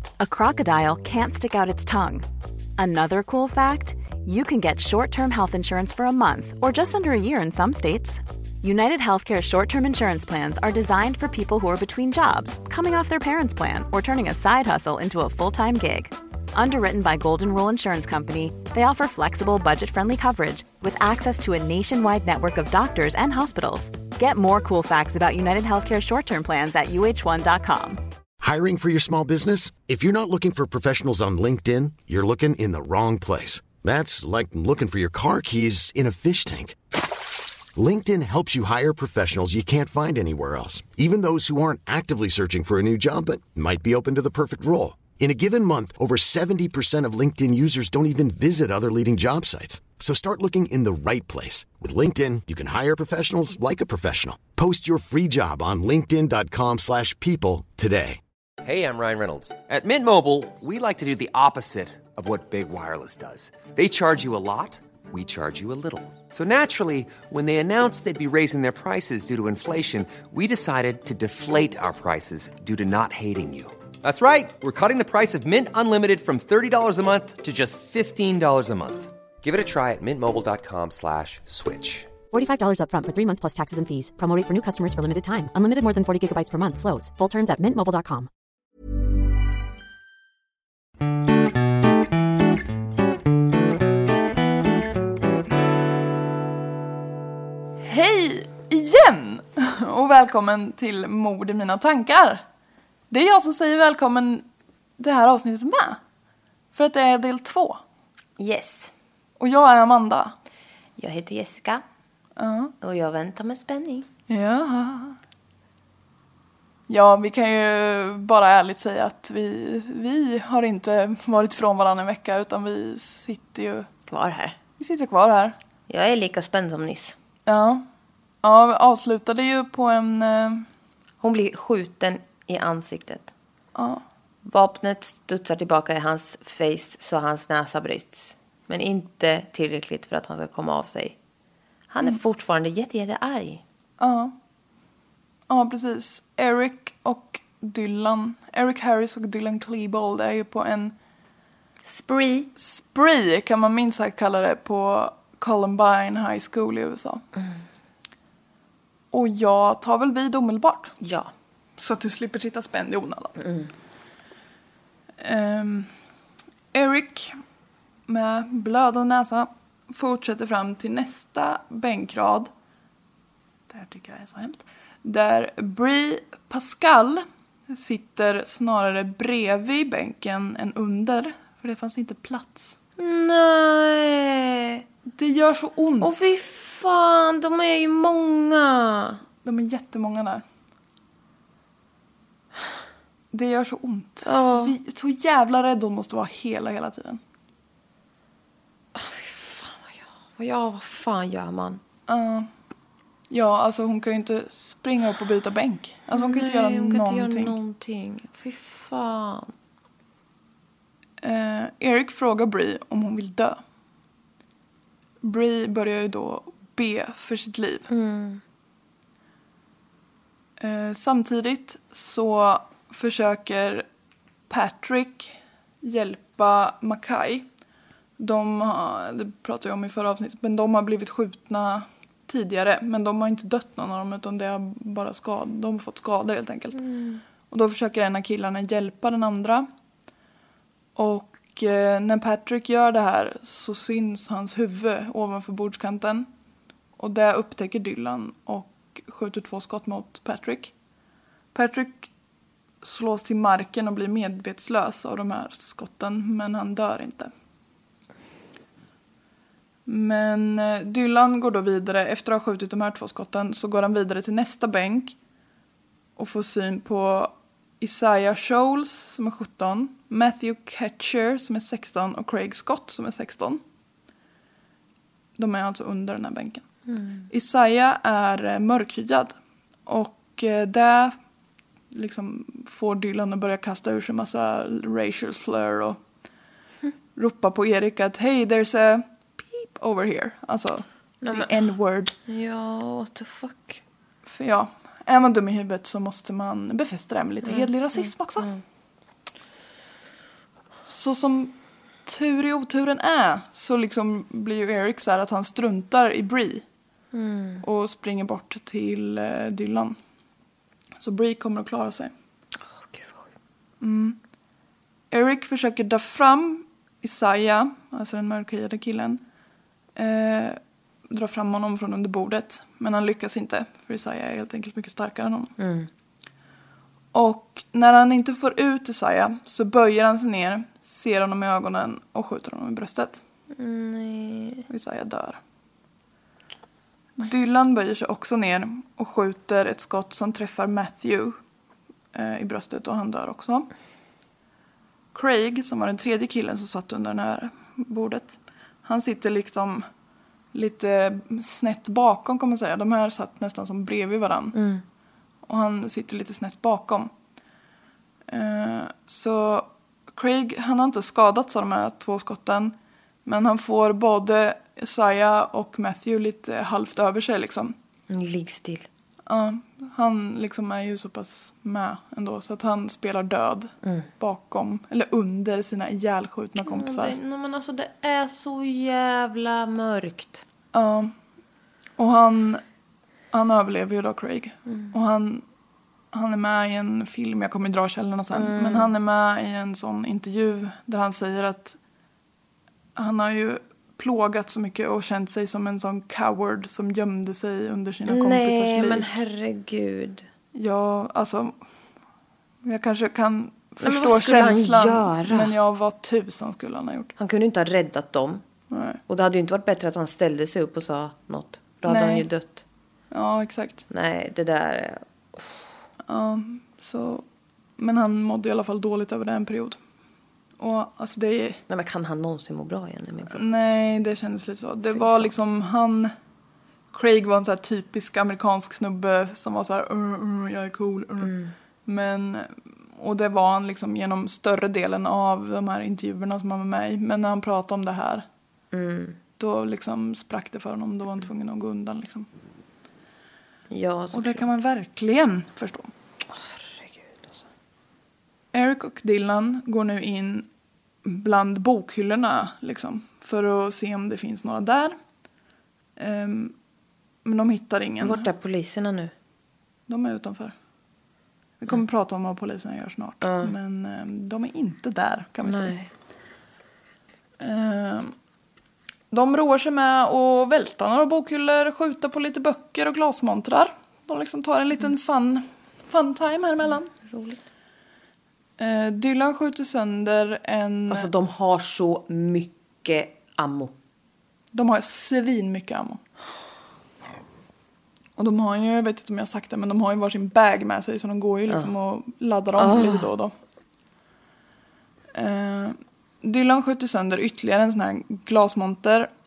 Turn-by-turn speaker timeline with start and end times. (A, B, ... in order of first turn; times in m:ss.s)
0:00.2-0:02.2 A
0:02.8-0:28.0 A
0:28.4-0:36.8 B
0:37.7-0:58.2 B
0:58.6-1:22.1 C
1:22.3-1:28.3 D
1:37.8-1:42.4 E
1:43.1-1:44.4 E
1:45.0-1:46.0 E
1:46.7-1:47.8 E
1:48.4-1:48.9 F
1:49.4-1:50.3 E
1:51.0-1:51.8 F
1:52.4-1:52.7 E
1:52.8-1:54.1 F
1:54.3-1:55.2 E
1:56.9-2:03.9 E
2:04.1-2:04.6 F
2:04.8-2:05.6 E
2:05.9-2:07.2 F
2:07.4-2:07.8 E
2:08.4-2:10.6 E
2:11.2-2:13.3 F
2:13.7-2:14.0 E
2:14.4-2:21.2 F
2:21.9-2:23.6 F
2:24.0-2:24.3 E
2:25.5-2:30.9 E
2:31.8-2:32.5 F
2:32.6-2:37.2 E
2:39.1-2:41.0 E
2:41.0-2:41.3 F
2:41.8-2:43.3 E
2:43.4-2:43.7 F
2:45.2-2:45.9 E
2:46.7-2:47.4 E
2:48.1-2:52.5 E
2:53.7-3:02.8 E
3:03.0-3:04.8 F
3:05.1-3:06.3 E
3:06.0-3:09.2 F
3:09.4-3:10.4 E
3:13.3-3:17.2 E
3:14.2-3:14.7 F
3:18.9-3:21.8 F
3:22.1-3:22.5 E
3:23.3-3:27.5 E
3:26.1-3:29.5 F
3:31.2-3:33.6 E
3:35.2-3:37.9 E
3:37.9-3:38.4 F
3:40.6-3:43.8 E
3:44.5-3:47.4 E
3:48.2-3:56.8 E
3:56.7-3:57.2 F
3:57.5-3:59.7 E
4:01.0-4:06.3 E
4:07.0-4:10.7 E
4:11.5-4:12.1 E
4:12.8-4:17.3 E
4:19.8-4:25.2 E
4:26.2-4:33.6 E
4:35.4-4:36.6 E
4:36.9-4:37.3 F
4:37.3-4:41.1 E
4:41.9-4:46.0 E
4:47.2-4:52.2 E
4:51.2-4:51.6 F
4:52.3-4:53.8 F
4:54.2-4:58.5 E
4:57.4-4:58.6 F
5:00.8-5:01.5 E
5:02.0-5:06.6 E
5:07.1-5:07.6 F
5:07.6-5:10.0 E
5:11.0-5:12.1 E
5:12.7-5:13.2 F
5:13.8-5:14.2 E
5:15.1-5:19.2 E
5:20.0-5:25.5 E
5:25.6-5:25.9 F
5:27.1-5:33.2 E
5:33.5-5:34.7 F
5:34.7-5:35.4 E
5:37.2-5:41.4 E
5:42.1-5:43.7 E
5:45.1-5:49.8 E
5:50.5-5:54.6 E
5:54.5-5:54.8 F
5:55.4-5:57.1 E
5:58.3-6:07.7 E
6:08.1-6:08.9 F
6:09.3-6:17.1 E
6:13.8-6:14.1 F
6:16.6-6:20.4 F
6:20.7-6:21.1 E
6:22.0-6:22.6 E
6:23.3-6:25.4 E
6:24.7-6:24.9 F
6:26.1-6:31.8 E
6:28.3-6:28.9 F
6:33.0-6:39.1 E
6:38.1-6:40.3 F
6:40.5-6:41.6 E
6:42.6-6:47.1 E
6:43.8-6:45.5 F
6:47.2-6:48.4 F
6:48.7-6:49.0 E
6:49.1-6:52.6 F
6:51.8-6:52.3 E
6:53.1-6:53.8 E
6:53.9-6:55.6 F
6:56.1-6:57.2 E
6:57.8-6:59.8 E
7:00.6-7:01.6 E
7:01.7-7:03.4 F
7:03.3-7:06.1 E
7:04.9-7:05.3 F
7:06.9-7:11.3 E
7:11.2-7:11.5 F
7:11.8-7:18.2 E
7:18.7-7:19.2 F
7:19.4-7:22.3 E
7:23.7-7:24.4 F
7:24.1-7:25.9 E
7:26.3-7:27.4 F
7:28.5-7:30.5 E
7:31.0-7:35.0 E
7:36.0-7:36.5 E
7:37.2-7:38.3 E
7:38.0-7:39.1 F
7:39.9-7:40.5 E
7:41.6-7:45.7 E
7:43.2-7:43.5 F
7:45.4-7:45.9 F
7:47.4-7:48.1 E
7:49.1-7:56.9 E
7:57.0-7:57.4 F
7:58.6-8:01.1 E
8:00.9-8:03.7 F
8:04.5-8:06.0 E
8:08.2-8:13.3 E
8:12.6-8:13.1 F
8:15.1-8:19.1 E